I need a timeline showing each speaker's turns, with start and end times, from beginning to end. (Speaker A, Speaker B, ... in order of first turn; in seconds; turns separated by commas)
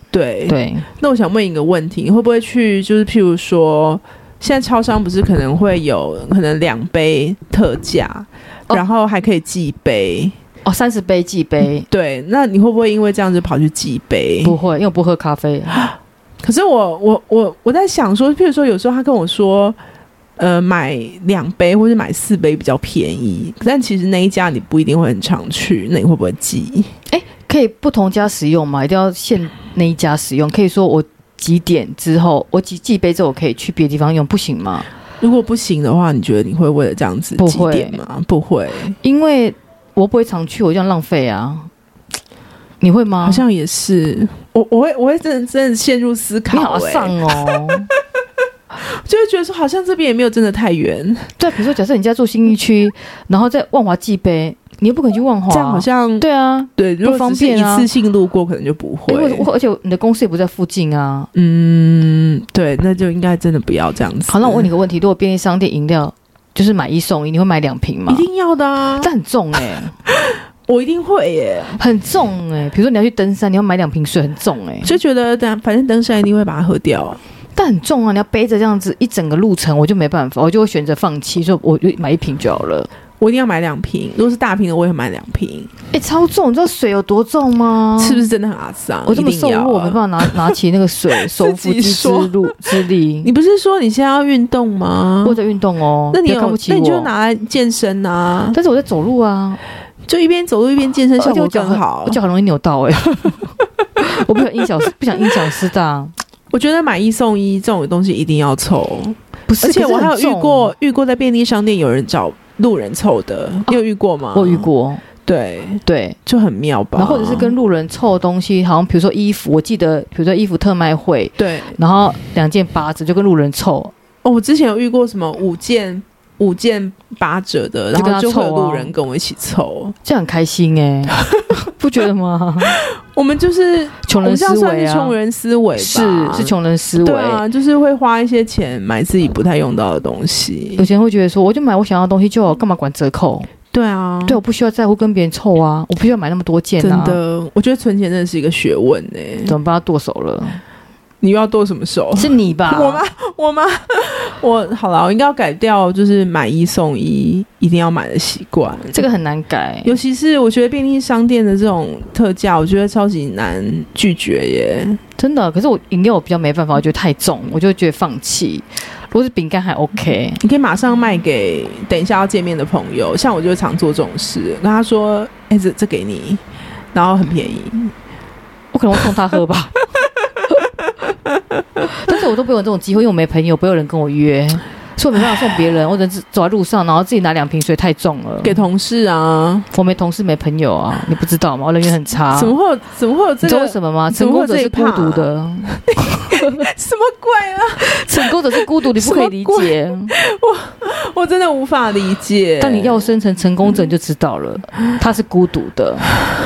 Speaker A: 0.1-10.3, Speaker B: 0.5-0.9, Speaker B: 10.6-11.9, Speaker A: 11.9-14.6, Speaker B: 14.4-15.9, Speaker A: 16.4-19.8, Speaker A: 20.4-26.9, Speaker B: 27.1-34.9, Speaker A: 35.2-39.0, Speaker B: 37.4-38.0, Speaker B: 39.0-41.7, Speaker B: 42.8-43.4, Speaker A: 43.2-47.2, Speaker B: 46.5-47.9, Speaker A: 48.8-51.3, Speaker B: 51.4-57.9, Speaker A: 55.5-56.2, Speaker A: 56.8-59.5, Speaker B: 59.1-61.3, Speaker A: 61.3-64.7, Speaker B: 64.3-68.2, Speaker A: 68.1-69.1, Speaker B: 69.0-69.9, Speaker A: 70.1-71.8, Speaker B: 71.8-74.9, Speaker A: 74.8-77.2, Speaker B: 77.5-82.9, Speaker A: 83.2-85.7, Speaker B: 85.9-88.3, Speaker A: 88.0-90.5, Speaker B: 89.1-93.3, Speaker A: 91.2-92.5, Speaker A: 93.2-95.4, Speaker B: 95.2-97.1, Speaker A: 96.1-98.6, Speaker B: 98.5-99.6, Speaker A: 100.1-102.2, Speaker B: 101.2-103.5, Speaker B: 104.0-106.1, Speaker A: 106.5-114.7, Speaker B: 109.5-110.7, Speaker B: 114.3-115.0, Speaker A: 115.2-117.5, Speaker B: 115.8-116.2, Speaker B: 117.0-123.9, Speaker A: 121.4-121.8, Speaker A: 124.2-129.9, Speaker B: 127.9-128.9, Speaker B: 130.0-132.8, Speaker A: 132.7-140.9, Speaker B: 134.1-135.1, Speaker B: 135.8-137.4, Speaker B: 140.8-143.5, Speaker A: 143.7-144.4, Speaker B: 144.2-147.2, Speaker A: 146.8-149.5, Speaker B: 149.4-150.6, Speaker A: 151.2-159.0, Speaker B: 152.2-153.0, Speaker B: 158.9-159.9, Speaker A: 159.8-165.0, Speaker B: 165.2-170.4, Speaker A: 170.4-177.9, Speaker B: 178.7-179.8, Speaker B: 181.8-188.6, Speaker A: 188.4-189.7, Speaker B: 189.7-192.6, Speaker A: 192.3-203.2, Speaker B: 193.4-196.6, Speaker B: 197.8-200.1, Speaker B: 202.6-206.1